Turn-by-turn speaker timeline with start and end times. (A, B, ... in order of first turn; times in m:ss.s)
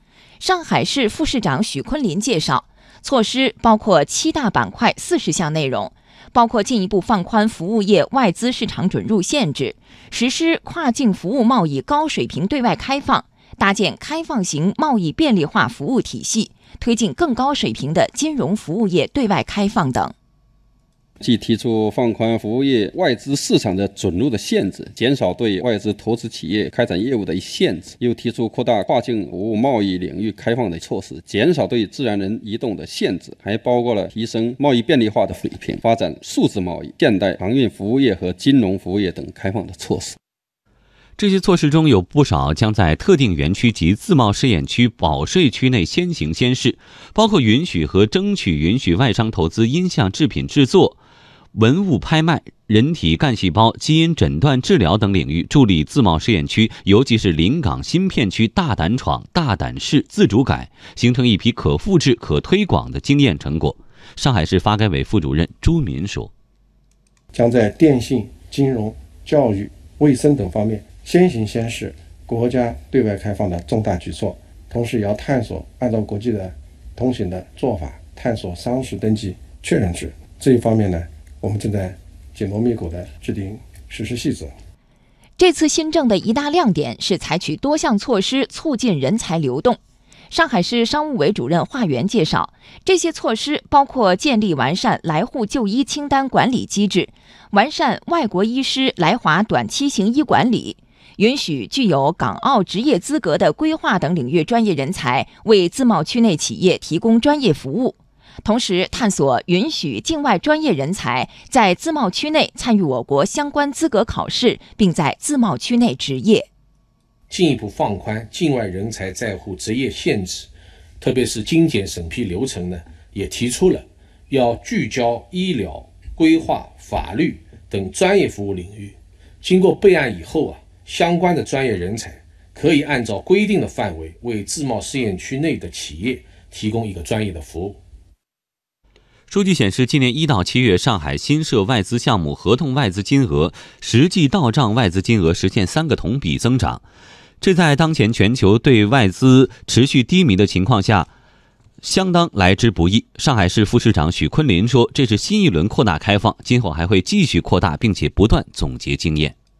0:00.4-0:20.1 A
0:21.2-0:40.2 B
0:41.2-0:51.0 C
0:51.5-1:06.3 C
1:07.3-1:24.5 D
1:25.4-1:29.8 A
1:30.3-1:56.5 A
1:57.3-2:17.8 E
2:19.3-2:26.8 C
2:27.4-2:31.1 C
2:31.8-2:39.3 C